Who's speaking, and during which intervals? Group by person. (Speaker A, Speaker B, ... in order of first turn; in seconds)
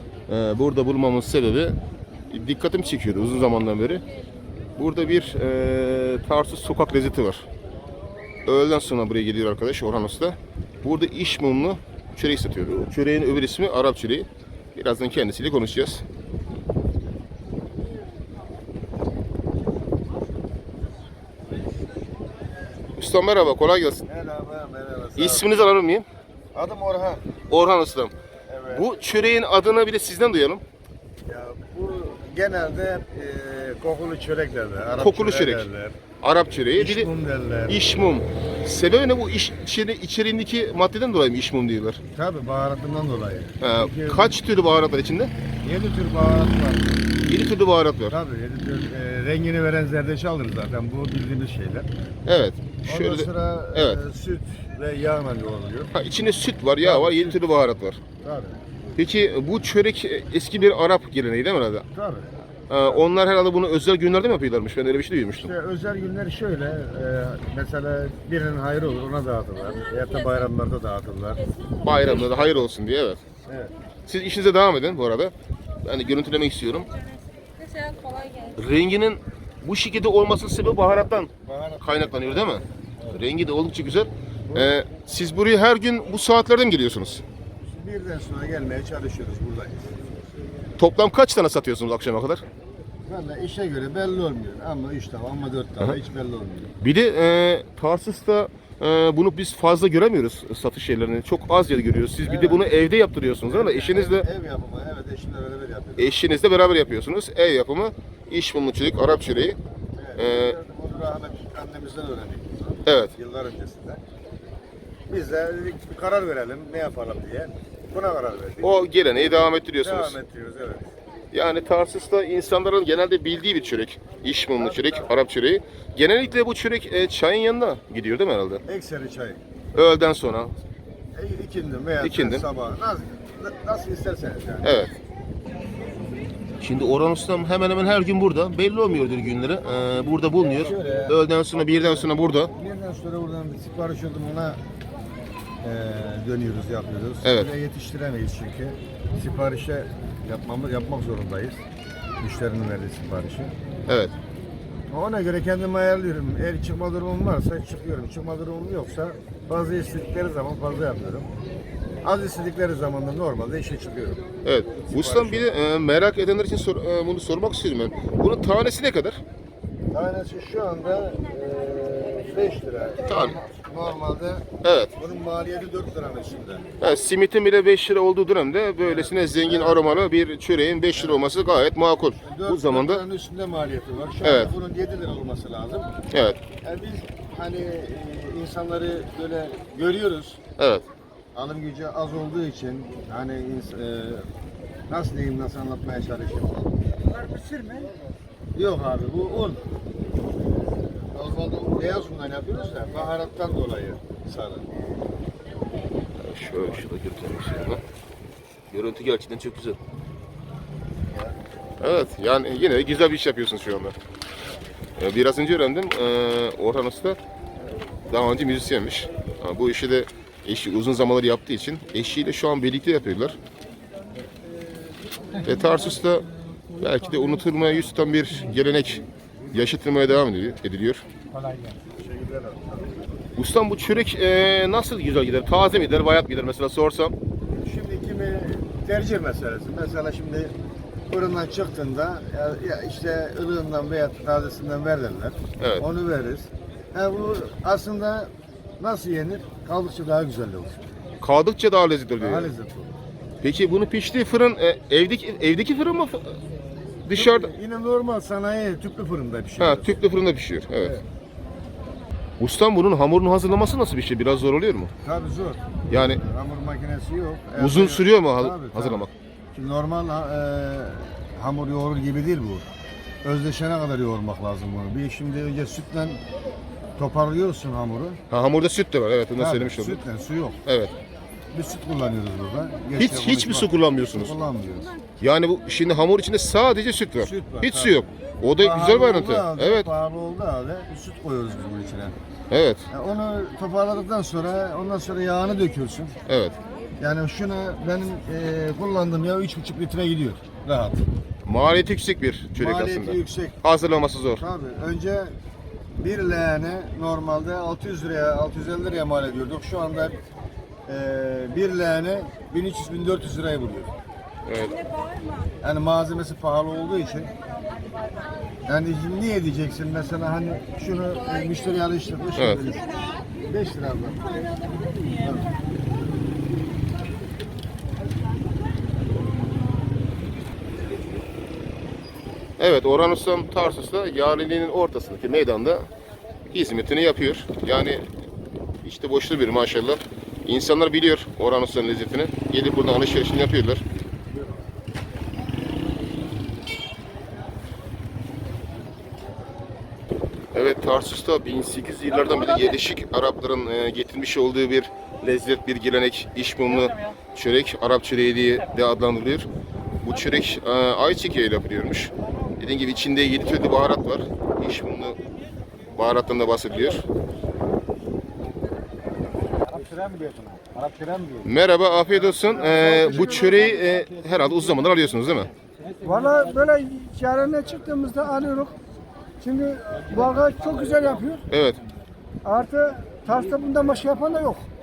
Speaker A: 0.3-1.8, 2.3-4.0, 4.8-7.5, 8.4-16.0, 22.9-24.0, 25.1-26.1, 27.5-28.1, 28.7-30.6, 35.0-35.7, 36.2-37.1, 37.7-42.0, 43.6-45.3, 47.2-48.1, 52.2-54.0, 55.9-58.0, 59.0-61.8, 62.7-65.5, 71.8-73.2, 74.0-75.3, 75.8-76.9, 78.3-81.3, 81.8-87.2, 90.8-92.4, 96.8-104.2, 106.0-109.6, 110.2-110.5, 112.8-113.1, 118.6-120.2, 121.3-128.6, 129.7-130.5, 132.0-132.4, 134.6-134.9, 136.6-142.5, 147.2-147.5, 153.9-154.1, 164.4-169.2, 173.1-173.4, 174.6-174.9, 176.8-183.0, 184.2-184.5, 186.1-186.4, 190.6-190.8, 206.2-207.8, 208.7-209.8, 211.8-213.9, 215.0-217.2, 218.1-223.4, 225.3-231.0, 233.3-237.1, 245.6-245.8, 251.2-252.5, 253.4-256.4, 257.1-257.5, 259.6-260.9, 262.4-264.9, 265.9-266.2, 267.6-269.1, 278.3-280.0, 280.6-280.9, 283.0-284.3, 285.2-289.9, 292.5-292.8, 296.2-296.6, 301.4-304.4, 314.5-314.8, 322.4-322.6, 332.6-335.9, 336.5-338.0, 338.8-343.8, 350.5-359.5, 360.0-365.2, 365.9-367.1, 371.4-375.5, 381.5-381.8
Speaker B: 24.1-25.5, 26.5-27.3, 28.5-28.9, 31.2-36.0, 36.7-37.9, 42.1-44.3, 45.6-47.0, 48.1-51.9, 52.9-55.9, 56.8-57.4, 58.2-58.6, 61.9-63.0, 65.4-71.4, 73.4-73.7, 81.4-82.6, 87.6-89.9, 93.0-96.7, 102.2-102.7, 103.4-106.2, 109.9-114.0, 115.1-118.8, 119.8-120.9, 124.6-125.1, 128.6-129.4, 131.1-134.9, 140.4-141.2, 142.0-144.6, 145.6-151.6, 152.2-153.5, 154.9-161.3, 162.0-164.2, 164.8-165.5, 169.9-176.6, 178.8-180.1, 180.9-181.3, 182.2-185.9, 186.6-190.4, 191.3-194.2, 194.9-196.8, 198.5-199.6, 201.1-204.7, 231.9-233.1, 237.5-240.5, 241.1-250.8, 252.2-252.9, 257.1-260.0, 260.8-261.0, 265.0-272.6, 273.2-276.2, 277.0-278.2, 279.4-280.6, 281.5-284.9, 287.2-292.1, 292.9-296.1, 297.0-301.0, 302.5-303.6, 304.3-305.3, 306.0-310.2, 310.9-313.9, 315.6-317.3, 318.6-324.5, 325.1-325.4, 369.6-371.5, 372.4-373.4
Speaker C: 372.6-373.6, 376.0-378.7, 379.4-381.4, 382.4-384.6